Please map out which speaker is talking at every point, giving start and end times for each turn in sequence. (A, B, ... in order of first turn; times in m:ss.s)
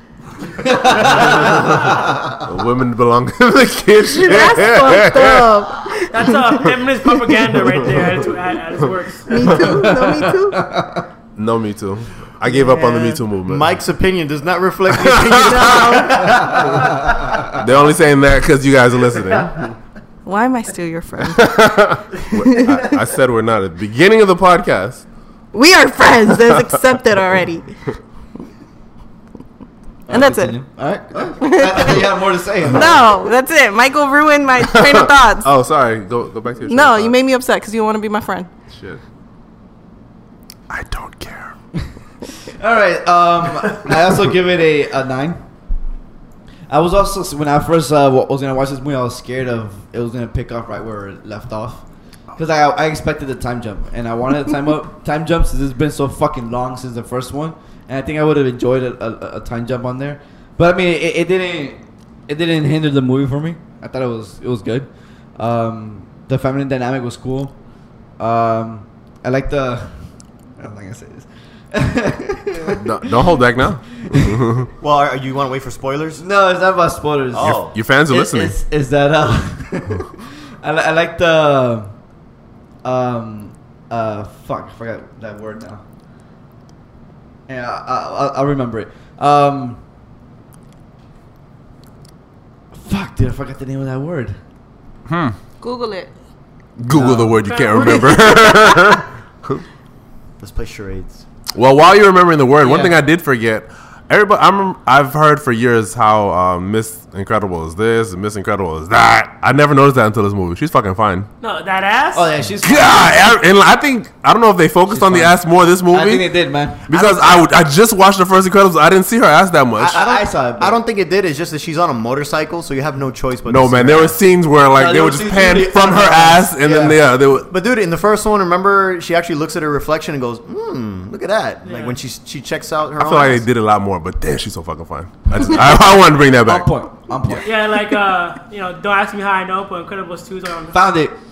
0:00.6-0:02.4 A
0:01.0-0:01.7 B
0:02.3-0:05.7 B
0:04.1-0:06.6 C
0:06.1-0:09.3 D
0:09.3-0:10.7 C
0:09.4-0:11.1 A
0:11.4-0:13.7 B
0:12.4-0:17.2 E
0:14.9-0:16.0 B
0:15.4-0:16.4 C
0:16.4-0:16.9 A
0:17.6-0:19.6 B
0:20.3-0:22.8 C
0:21.2-0:25.0 B
0:25.5-0:27.7 C
0:30.1-0:30.6 C
0:30.1-0:33.1 A
0:31.3-0:32.1 C
0:32.7-0:35.5 C
0:34.6-0:37.2 B
0:36.7-0:38.5 C
0:38.7-0:39.0 B
0:40.7-0:41.5 B
0:41.8-0:45.4 A
0:46.7-1:07.5 A
1:08.2-1:13.2 A
1:12.8-1:14.7 B
1:14.0-1:14.4 A
1:14.8-1:16.2 E
1:16.2-1:21.9 A
1:17.3-1:17.8 E
1:17.4-1:18.6 B
1:22.8-1:25.8 A
1:27.5-1:29.8 A
1:32.7-1:34.4 A
1:35.1-1:35.4 B
1:35.6-1:36.1 C
1:36.8-1:39.6 B
1:36.9-1:37.4 A
1:37.4-1:39.0 C
1:40.4-1:41.2 E
1:41.5-1:51.3 B
1:42.6-1:43.0 A
1:51.4-1:52.3 D
1:52.1-1:53.3 A
1:52.6-1:56.3 B
1:54.9-1:56.8 A
1:56.9-2:00.0 B
1:56.9-1:57.6 E
1:59.8-2:00.8 A
1:59.9-2:04.2 E
2:03.5-2:07.5 B
2:04.7-2:06.6 A
2:06.6-2:13.4 E
2:11.6-2:12.0 D
2:13.0-2:16.7 B
2:16.4-2:17.5 A
2:17.4-2:20.8 D
2:20.7-2:21.2 A